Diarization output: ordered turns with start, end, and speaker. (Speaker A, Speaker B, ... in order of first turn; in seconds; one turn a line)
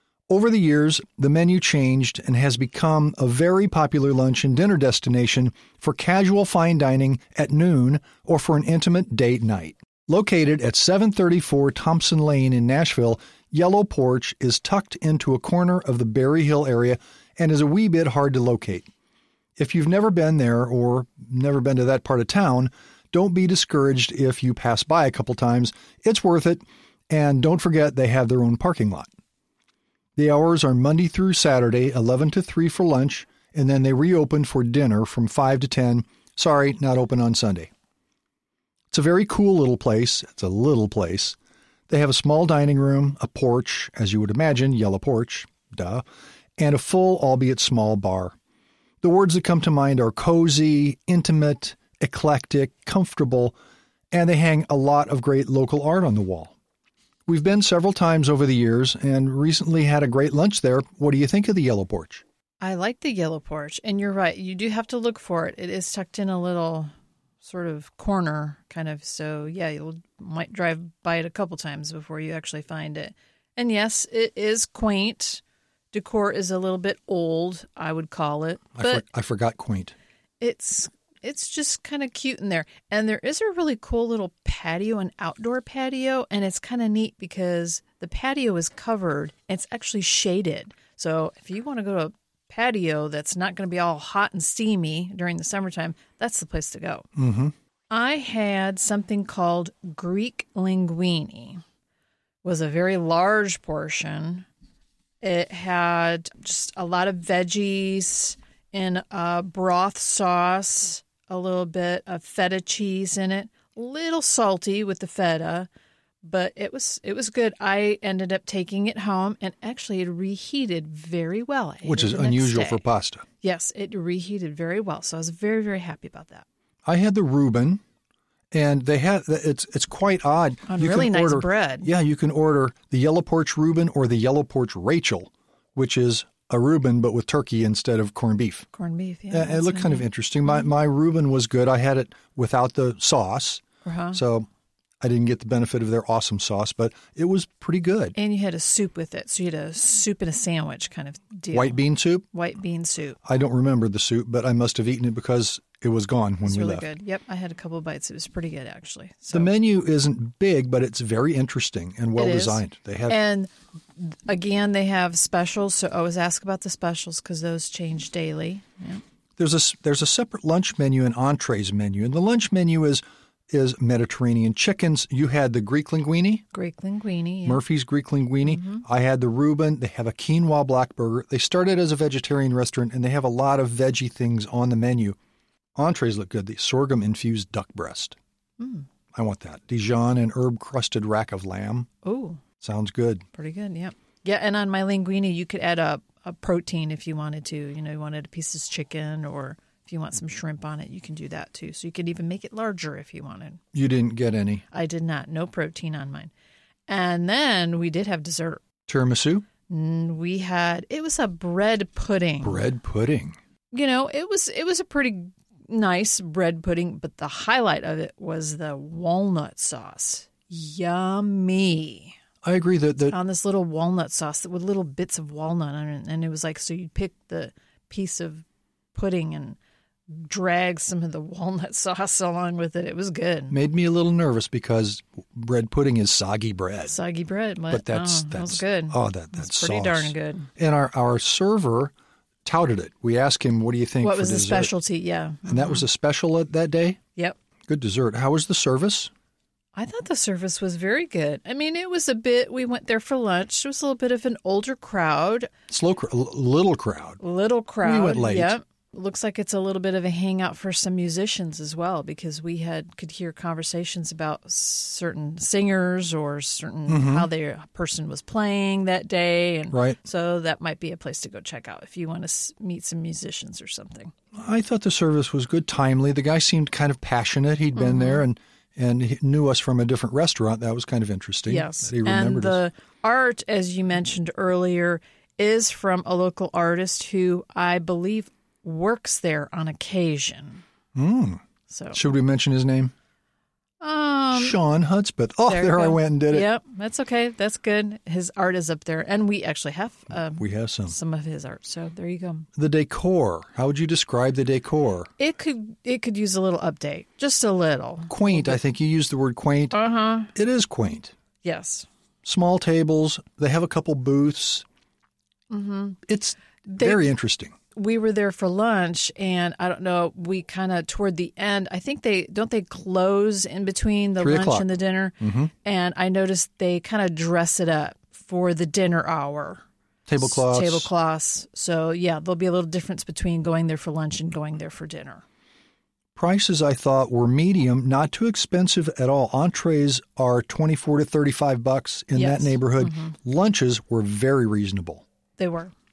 Speaker A: 0.3-18.9
Speaker A: 19.6-29.1
Speaker A: 30.2-37.7
Speaker A: 38.9-41.4
Speaker A: 41.9-46.0
Speaker A: 46.6-48.4
Speaker A: 49.0-53.5
Speaker A: 54.1-56.5
Speaker A: 57.3-62.2
Speaker B: 62.6-66.9
Speaker B: 67.4-79.0
Speaker A: 78.8-79.9
Speaker B: 80.4-97.0
Speaker A: 97.2-97.5
Speaker B: 97.9-101.6
Speaker B: 102.4-104.5
Speaker B: 105.2-115.7
Speaker B: 116.2-122.8
Speaker A: 121.8-123.2
Speaker B: 123.4-126.5
Speaker A: 126.8-127.8
Speaker A: 128.5-138.7
Speaker B: 130.7-131.9
Speaker B: 138.7-140.7
Speaker A: 139.3-144.5
Speaker B: 143.8-144.2
Speaker A: 145.0-148.1
Speaker B: 148.1-153.2
Speaker A: 151.5-152.2
Speaker A: 153.2-156.9
Speaker B: 156.4-159.5
Speaker A: 159.3-163.2
Speaker B: 162.2-169.0
Speaker A: 169.4-176.4
Speaker B: 176.5-177.6
Speaker A: 177.4-185.2
Speaker B: 178.4-178.8
Speaker A: 185.8-188.2
Speaker B: 188.6-188.9
Speaker A: 189.1-191.9
Speaker B: 192.0-192.4
Speaker A: 192.6-193.2
Speaker B: 193.3-203.6
Speaker A: 203.7-204.6
Speaker B: 204.7-206.3
Speaker B: 206.9-208.6
Speaker A: 208.9-209.4
Speaker B: 209.7-212.7
Speaker A: 212.4-213.3
Speaker B: 213.7-222.2
Speaker A: 222.4-223.2
Speaker B: 223.1-229.6
Speaker B: 230.1-233.5
Speaker A: 233.5-236.9
Speaker B: 236.9-240.5
Speaker A: 237.7-241.9
Speaker A: 242.4-244.7
Speaker B: 244.0-245.8
Speaker A: 245.4-247.0
Speaker A: 247.7-249.1
Speaker B: 249.7-255.5
Speaker A: 255.7-257.2
Speaker B: 257.2-274.1
Speaker A: 257.8-258.5
Speaker A: 266.9-267.3
Speaker A: 269.7-270.0
Speaker A: 274.3-282.6
Speaker B: 277.8-278.2
Speaker B: 281.5-290.6
Speaker A: 290.9-291.4
Speaker B: 291.7-292.0
Speaker A: 291.9-292.9
Speaker B: 293.8-294.6
Speaker A: 294.3-296.5
Speaker B: 295.5-302.5
Speaker A: 300.4-300.9
Speaker A: 302.6-305.1
Speaker B: 305.2-308.6
Speaker A: 308.1-309.8
Speaker B: 309.7-310.3
Speaker A: 310.3-311.1
Speaker B: 311.4-311.9
Speaker A: 312.2-314.6
Speaker B: 315.5-316.0
Speaker A: 316.1-317.5
Speaker B: 316.7-317.0
Speaker B: 317.7-329.6
Speaker A: 324.2-325.5
Speaker A: 330.1-330.9
Speaker B: 330.2-335.2
Speaker A: 336.1-345.0
Speaker B: 342.1-343.1
Speaker B: 345.4-345.7